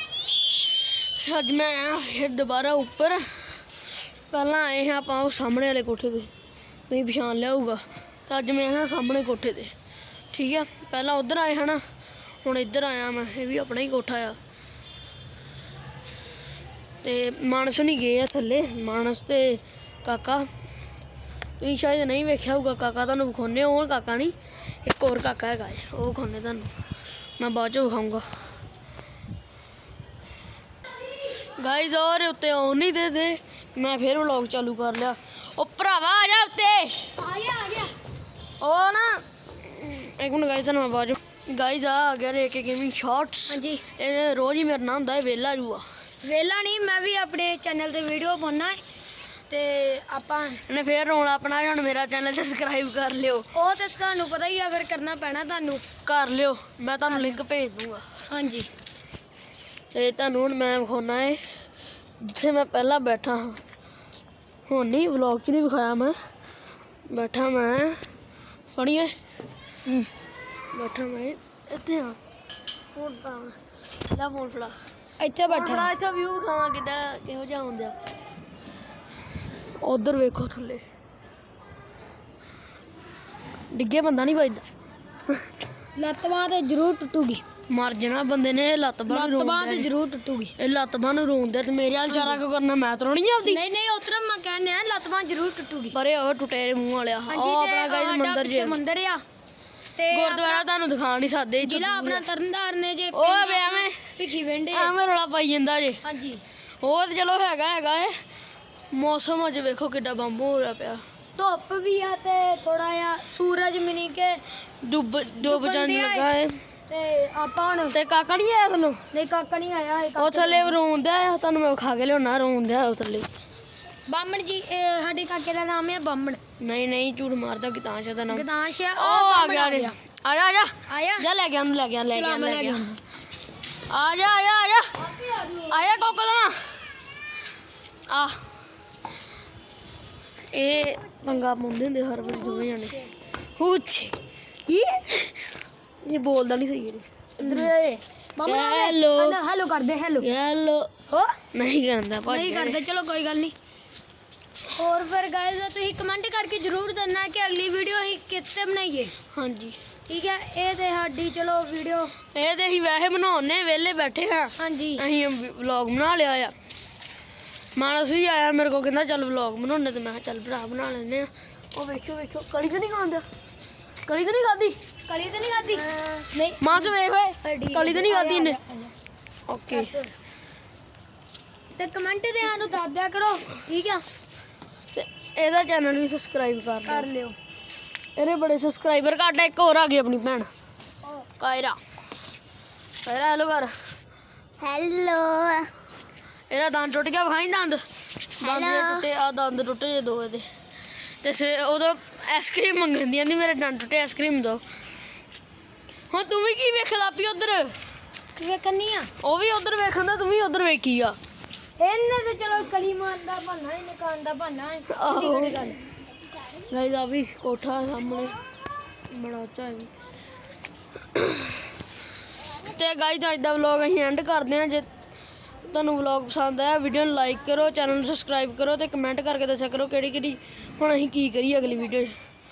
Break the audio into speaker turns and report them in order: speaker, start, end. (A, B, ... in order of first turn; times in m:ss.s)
0:01.2-0:03.6 A
0:04.3-0:06.3 A
0:06.9-0:09.7 A
0:10.3-0:11.8 A
0:12.4-0:14.4 A
0:17.0-0:20.5 A
0:21.6-0:26.7 A
0:27.4-0:28.2 A
0:31.6-0:37.1 A
0:37.2-0:37.9 B
0:38.6-0:45.8 A
0:43.5-0:43.8 B
0:46.2-0:48.8 B
0:49.5-0:50.6 B
0:50.7-0:53.5 A
0:53.5-0:55.9 B
0:56.0-0:58.1 A
0:57.1-0:57.4 B
0:58.3-0:58.7 B
0:59.9-1:01.4 A
1:02.2-1:03.6 A
1:04.7-1:06.2 A
1:07.1-1:08.0 A
1:08.7-1:09.1 A
1:10.7-1:12.2 A
1:12.9-1:13.6 A
1:14.1-1:14.7 A
1:15.2-1:15.9 B
1:15.5-1:18.0 A
1:19.8-1:20.8 A
1:23.7-1:24.6 A
1:26.0-1:27.4 B
1:27.7-1:29.9 A
1:29.1-1:30.5 B
1:30.6-1:33.6 A
1:32.1-1:32.4 B
1:33.4-1:36.0 B
1:35.9-1:38.8 A
1:37.3-1:39.2 B
1:40.0-1:40.7 B
1:40.1-1:42.2 A
1:41.6-1:44.9 B
1:43.1-1:44.1 A
1:44.7-1:46.0 A
1:46.0-1:46.4 B
1:46.8-1:48.2 A
1:48.9-1:51.0 A
1:51.4-1:54.4 B
1:54.8-1:56.6 A
1:55.4-1:56.3 B
1:56.9-1:58.0 B
1:57.9-1:59.0 A
1:59.1-2:00.8 B
2:00.2-2:03.3 A
2:04.1-2:06.4 B
2:06.6-2:12.8 A
2:08.3-2:10.0 B
2:10.9-2:11.3 B
2:12.1-2:13.0 B
2:13.9-2:15.0 A
2:15.0-2:15.9 B
2:15.7-2:16.7 A
2:18.1-2:18.4 A
2:20.5-2:23.0 A
2:22.2-2:23.1 B
2:23.6-2:24.2 A
2:24.7-2:25.5 A
2:26.0-2:29.4 A
2:27.4-2:27.7 B
2:28.4-2:30.3 B
2:30.2-2:30.9 A
2:31.1-2:31.4 B
2:31.5-2:32.8 A
2:32.3-2:33.6 B
2:34.7-2:39.1 B
2:39.3-2:39.8 A
2:40.1-2:42.1 B
2:42.3-2:46.6 A
2:44.6-2:45.0 B
2:47.8-2:53.2 A
2:54.1-2:54.8 A
2:55.1-2:58.9 B
2:56.6-2:58.6 A
2:59.5-2:59.9 A
2:59.7-3:00.2 B
3:01.8-3:04.0 B
3:04.9-3:07.1 A
3:06.8-3:07.4 B
3:08.2-3:10.5 A
3:11.4-3:11.8 A
3:13.0-3:13.7 A
3:14.6-3:15.7 B
3:16.5-3:17.8 A
3:18.4-3:20.5 A
3:18.4-3:19.0 B
3:21.2-3:24.6 A
3:26.1-3:27.8 A
3:28.4-3:29.1 B
3:29.2-3:31.2 A
3:31.8-3:35.8 B
3:34.9-3:35.6 A
3:36.7-3:38.4 A
3:39.1-3:39.9 A
3:41.2-3:41.7 A
3:42.6-3:44.9 A
3:45.7-3:52.2 A